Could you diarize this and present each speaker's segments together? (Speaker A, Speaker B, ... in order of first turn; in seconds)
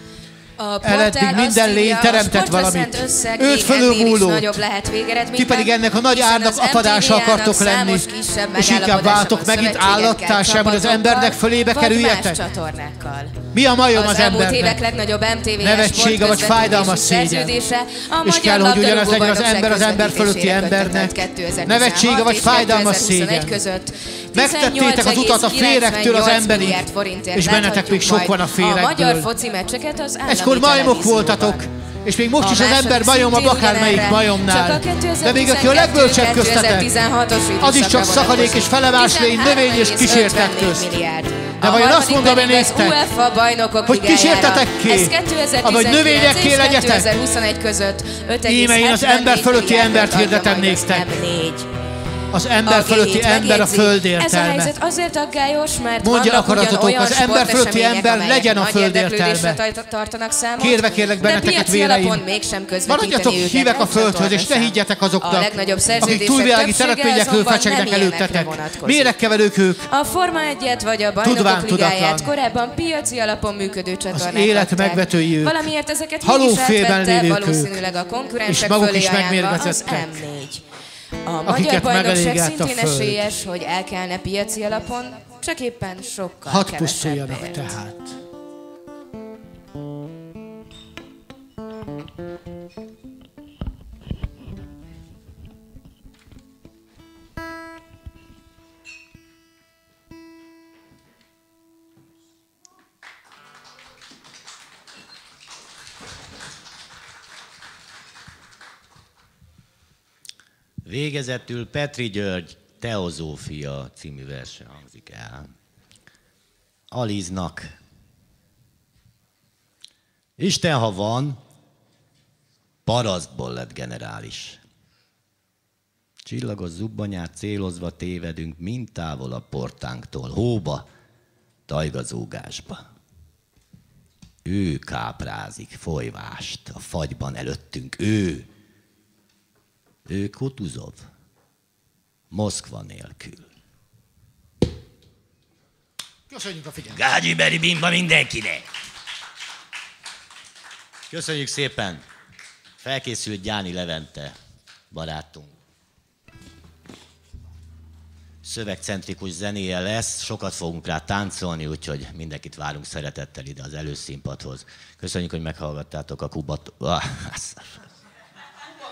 Speaker A: 0.6-31.6, 32.4-51.7, 52.6-69.2, 69.9-80.6, 81.2-87.8
Speaker B: 0.8-4.6, 5.3-12.4, 13.5-14.8, 15.6-17.6, 18.2-23.6, 24.3-29.3, 30.3-36.9, 37.6-41.0, 41.6-43.0, 43.9-47.1, 48.4-51.2, 52.3-54.7, 56.0-59.6, 60.6-62.2, 62.9-69.9, 71.2-72.3, 74.1-77.8, 78.5-80.2, 81.5-83.3, 86.5-88.2, 146.3-147.0
Speaker C: 110.8-115.5, 116.9-117.8, 120.4-121.4, 122.9-124.6, 126.2-130.9, 131.7-132.8, 134.4-138.5, 140.1-141.1, 142.3-143.5, 146.9-148.7, 151.1-152.1, 152.8-154.3, 154.9-155.6, 158.4-167.8